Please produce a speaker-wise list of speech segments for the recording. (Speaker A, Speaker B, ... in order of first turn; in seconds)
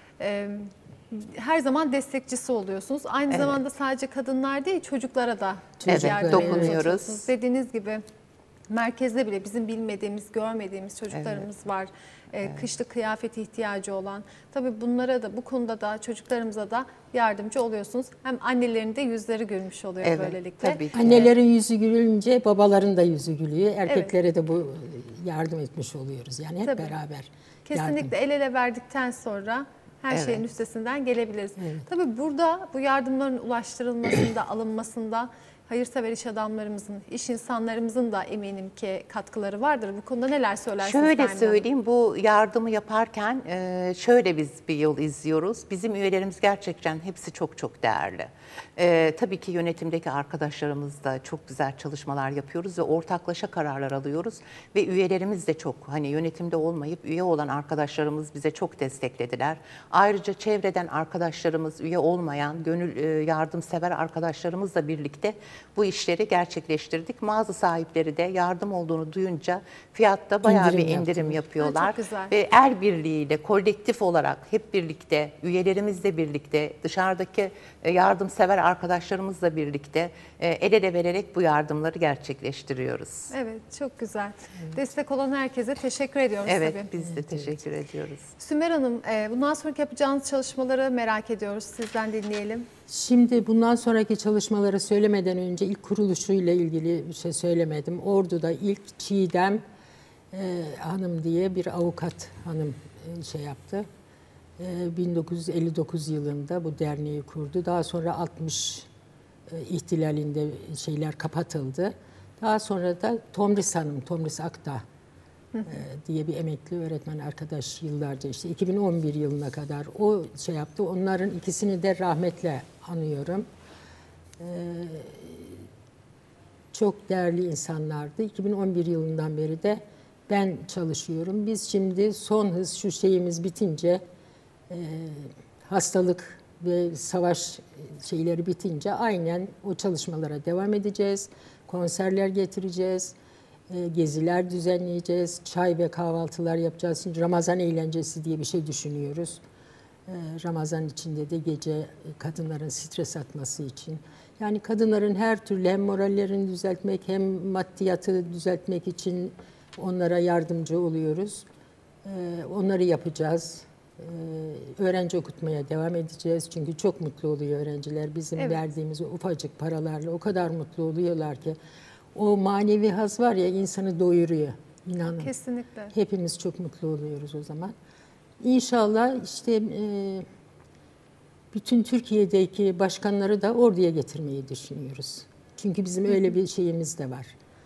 Speaker A: 0.2-8.0, 8.7-21.2, 26.6-26.9, 27.6-41.6, 71.6-72.3, 83.3-86.9, 88.4-92.7, 175.2-175.9
Speaker B: 5.8-6.8, 20.9-28.1, 31.6-31.8, 70.4-71.4, 92.9-99.6, 100.3-103.9, 104.6-108.9, 109.5-114.8, 115.7-123.5, 124.4-125.6, 126.7-134.0, 134.7-143.1, 143.7-149.4, 150.1-161.4, 162.0-171.6, 172.1-175.3, 175.9-177.7, 178.4-180.2, 181.5-187.3
Speaker C: 5.9-7.3, 11.1-11.4, 20.0-21.3, 30.1-30.4, 40.8-83.3, 86.5-88.3